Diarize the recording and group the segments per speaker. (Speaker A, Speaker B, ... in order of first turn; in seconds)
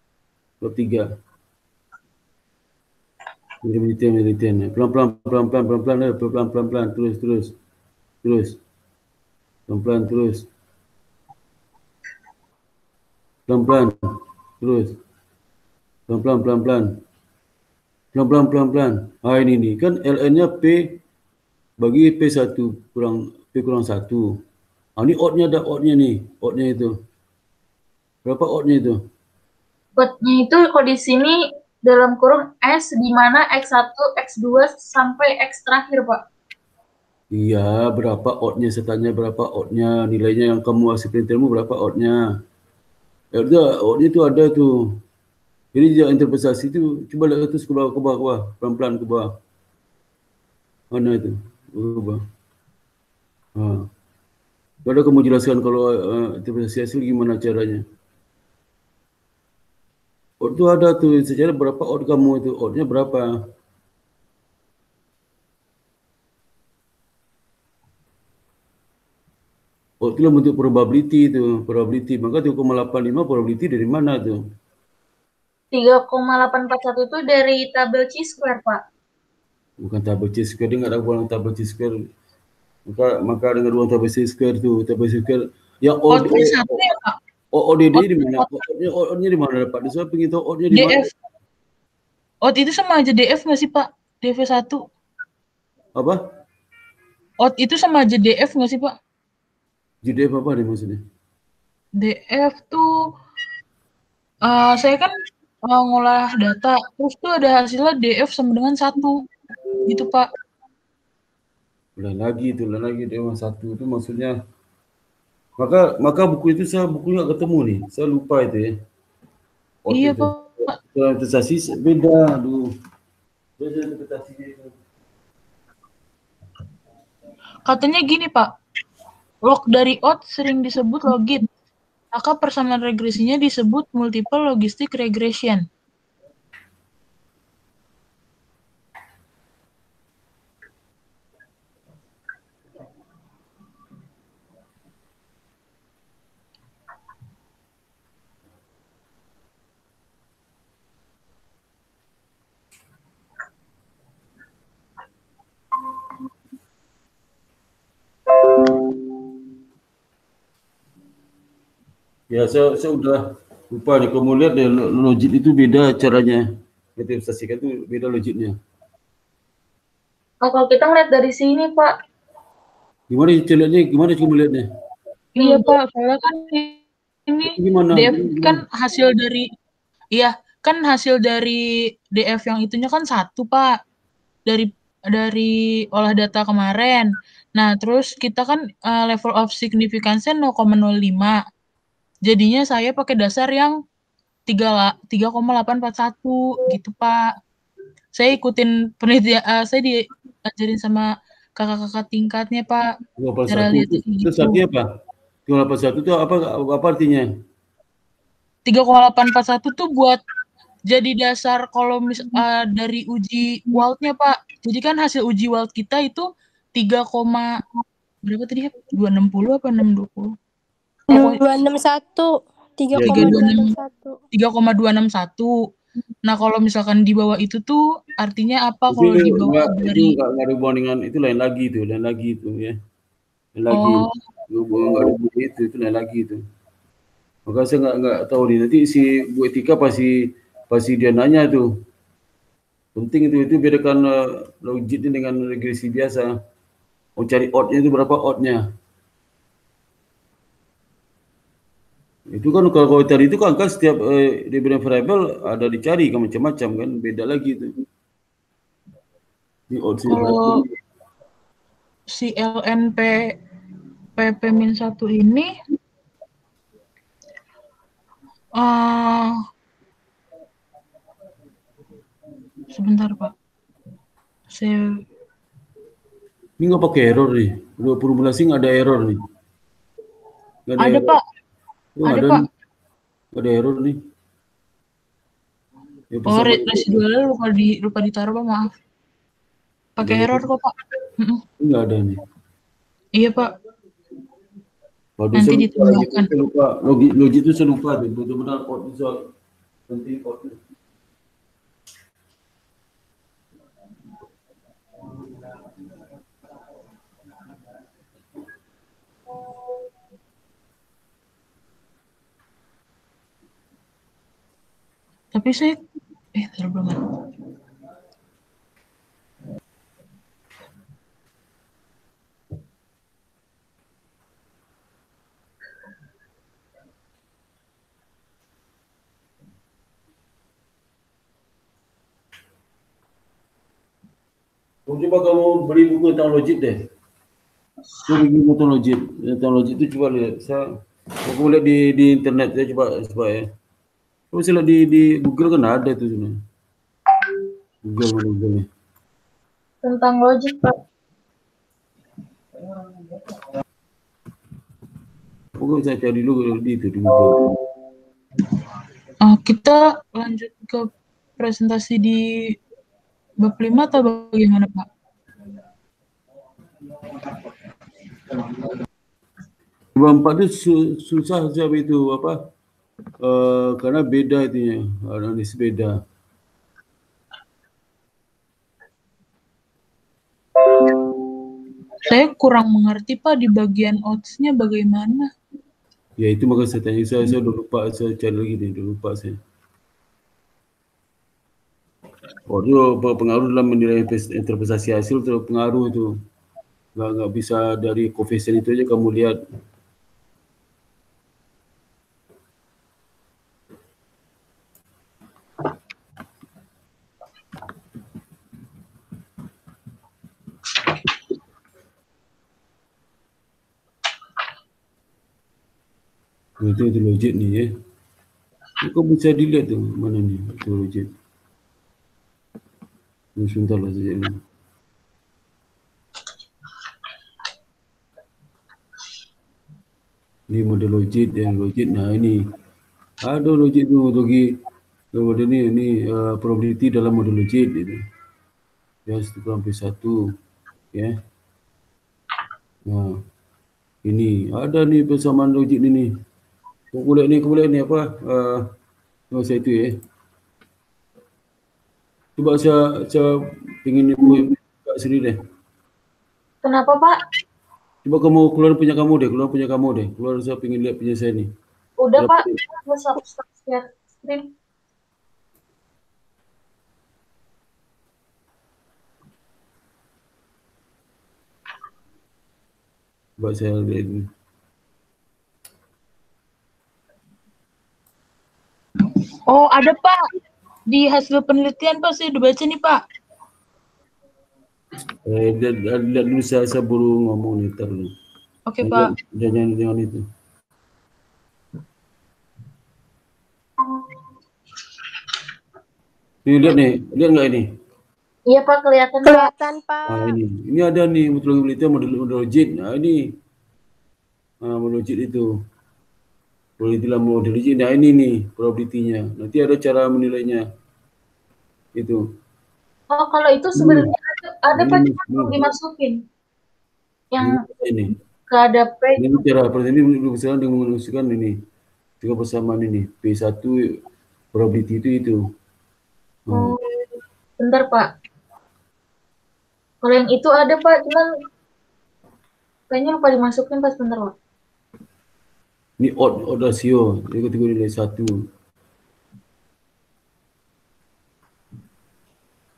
Speaker A: 0.6-1.1, 3.6-7.5, 8.2-8.6, 9.7-10.4, 13.5-13.9, 14.6-14.9, 16.1-16.9, 18.1-20.8, 21.8-24.3, 25.0-26.9, 28.2-29.0, 37.3-42.2, 43.4-44.7, 45.7-49.3, 50.9-52.2, 53.6-53.8, 54.8-57.8, 60.4-63.3, 70.0-74.4, 79.8-81.9, 82.9-86.8, 87.5-91.0, 100.0-101.0, 112.0-114.3, 115.6-118.7, 119.8-122.6, 123.6-124.7, 162.3-168.6, 173.1-174.7, 177.4-178.6, 203.2-204.8, 205.5-207.2, 222.9-223.4, 228.9-232.8, 233.6-236.4, 237.5-240.1, 240.7-241.7, 242.9-244.1, 244.6-246.3, 247.2-248.6, 252.3-257.7, 259.7-260.7, 276.6-279.2, 280.7-281.1, 281.9-282.4, 283.4-284.0, 286.1-287.0, 290.0-290.4, 291.6-292.2, 295.2-299.2, 299.9-300.6, 334.9-336.8, 338.0-340.6, 341.2-343.4, 344.3-346.4, 347.8-348.7, 355.6-357.4, 369.9-372.4, 373.2-375.9, 386.2-389.4, 392.5-396.1, 396.9-399.4, 416.6-417.7, 418.8-421.1, 423.4-424.4, 430.5-432.4, 433.2-434.4, 435.1-438.0, 439.1-440.2, 442.9-443.2, 444.0-446.1, 446.9-448.6, 449.3-449.9, 452.4-455.4, 458.0-461.5, 462.2-462.5, 473.4-474.3, 485.2-488.1, 488.8-490.2, 496.4-497.6, 500.1-503.2, 504.6-505.5, 506.8-510.6, 511.9-512.2, 513.7-514.1, 514.8-515.5, 517.4-518.1, 519.2-521.6, 522.2-523.8, 524.5-525.4, 526.5-526.7, 536.0-538.4
Speaker B: 30.0-36.2, 75.7-78.8, 170.4-171.9, 175.4-175.7, 349.8-350.8, 456.6-457.2, 462.0-464.5, 498.5-499.5, 513.1-516.2, 517.3-517.6, 518.5-519.4, 526.5-526.8, 527.6-528.1, 530.0-531.3, 532.9-534.3
Speaker C: 86.1-87.2, 88.0-88.5, 90.7-91.1, 92.4-94.8, 97.4-98.9, 102.0-102.8, 104.5-105.1, 105.7-109.2, 109.9-110.3, 119.9-120.7, 127.7-128.5, 129.4-131.5, 132.1-135.6, 175.3-179.4, 180.1-181.6, 182.1-183.7, 184.5-191.4, 192.2-193.7, 194.5-197.2, 198.1-202.9, 203.5-204.6, 208.7-210.2, 210.9-217.6, 218.2-220.3, 221.1-221.4, 223.0-223.7, 224.3-225.5, 226.2-230.2, 233.7-234.2, 260.1-260.6, 262.1-263.3, 264.2-265.5, 268.6-269.3, 272.7-273.3, 274.5-274.8, 280.8-281.2, 282.0-282.4, 286.3-288.7, 290.0-291.4, 293.2-293.5, 295.3-296.3, 315.3-315.8, 316.4-317.1, 359.2-360.9, 361.4-362.6, 363.4-364.9, 382.0-385.3, 479.5-480.2, 480.9-483.0, 488.7-489.1
Speaker D: 221.1-224.2, 499.2-500.4